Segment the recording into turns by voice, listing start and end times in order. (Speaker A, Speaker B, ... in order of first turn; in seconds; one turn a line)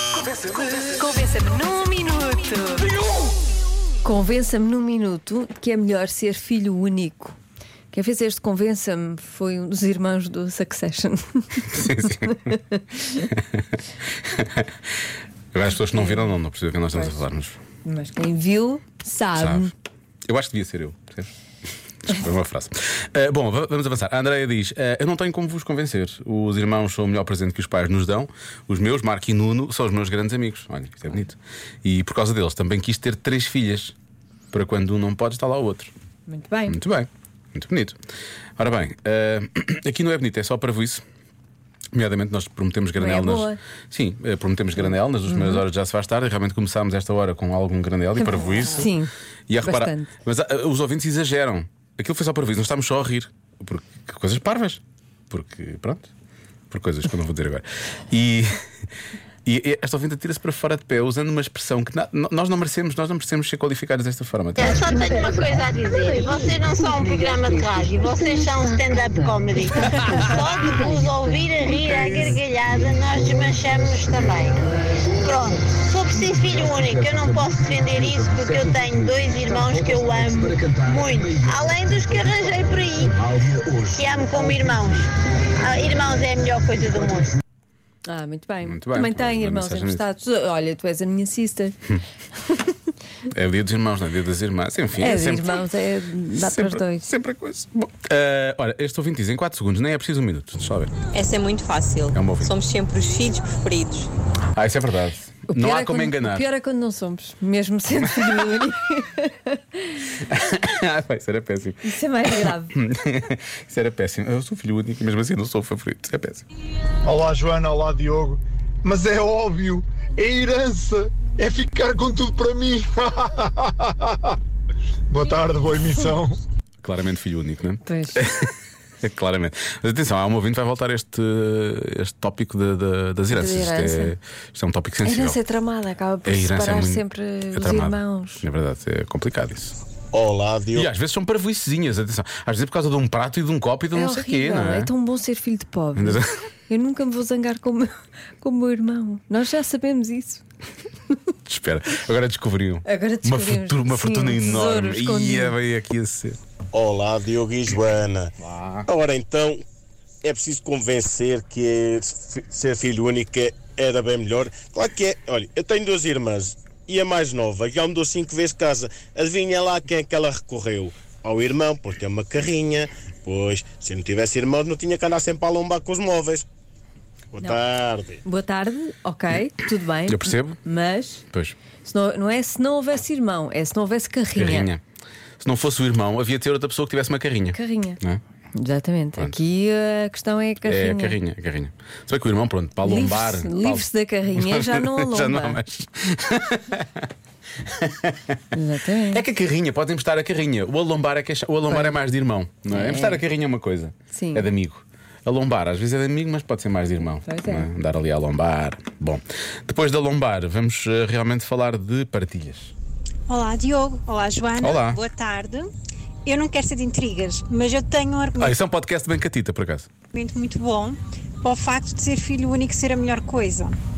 Speaker A: 0.2-2.9
Speaker A: 4.0-7.4
Speaker A: 7.9-13.1
Speaker B: 11.7-12.4
Speaker B: 13.3-14.7
Speaker B: 15.5-17.6
Speaker A: 15.9-16.3
Speaker A: 16.9-17.2
Speaker A: 17.8-19.7
Speaker B: 19.4-19.7
Speaker B: 20.2-21.3
Speaker B: 22.0-33.9
Speaker B: 34.5-35.9
Speaker A: 36.3-36.8
Speaker B: 36.7-38.0
Speaker B: 38.6-41.0
Speaker B: 41.9-48.9
Speaker A: 43.0-43.6
Speaker A: 45.3-45.6
Speaker A: 48.2-50.1
Speaker B: 49.5-56.1
Speaker B: 56.7-58.6
Speaker B: 59.4-64.8
Speaker C: 64.6-87.4
Speaker A: 88.0-91.8
Speaker B: 88.6-90.0
Speaker B: 93.3-95.7
Speaker A: 95.0-97.1
Speaker B: 96.4-100.9
Speaker D: 101.2-104.1
Speaker B: 102.1-102.5
Speaker B: 104.5-106.5
Speaker A: 105.5-110.1
Speaker B: 110.2-116.4
Speaker A: 111.8-112.7
Speaker E: 117.0-124.4
Speaker E: 125.1-126.4
Speaker B: 126.8-135.4
Speaker A: 127.8-128.2
Speaker A: 133.3-134.1
Speaker A: 135.0-138.4
Speaker B: 136.2-139.8
Speaker F: 140.1-140.9
Speaker B: 140.7-144.9
Speaker A: 143.9-150.4
Speaker B: 145.9-146.3
Speaker B: 151.4-156.4
Speaker A: 152.8-155.6
Speaker F: 156.7-158.3
Speaker B: 158.4-158.9
Speaker F: 158.9-159.6
Speaker F: 160.2-176.4
Speaker F: 177.3-178.2
Speaker A: 178.2-181.2
Speaker B: 180.1-180.6
Speaker A: 181.8-184.7
Speaker B: 184.4-184.8
Speaker B: 185.4-188.2
Speaker A: 187.5-188.0
Speaker A: 188.5-191.2
Speaker B: 190.6-197.1
Speaker A: 192.8-195.6
Speaker B: 197.6-198.3
Speaker A: 198.5-199.2
Speaker B: 199.1-212.7
Speaker A: 201.7-202.0
Speaker A: 202.7-203.2
Speaker A: 204.1-204.5
Speaker A: 207.2-207.7
Speaker G: 213.3-215.7
Speaker B: 214.6-215.0
Speaker G: 216.2-218.6
Speaker B: 218.4-219.9
Speaker G: 220.1-223.8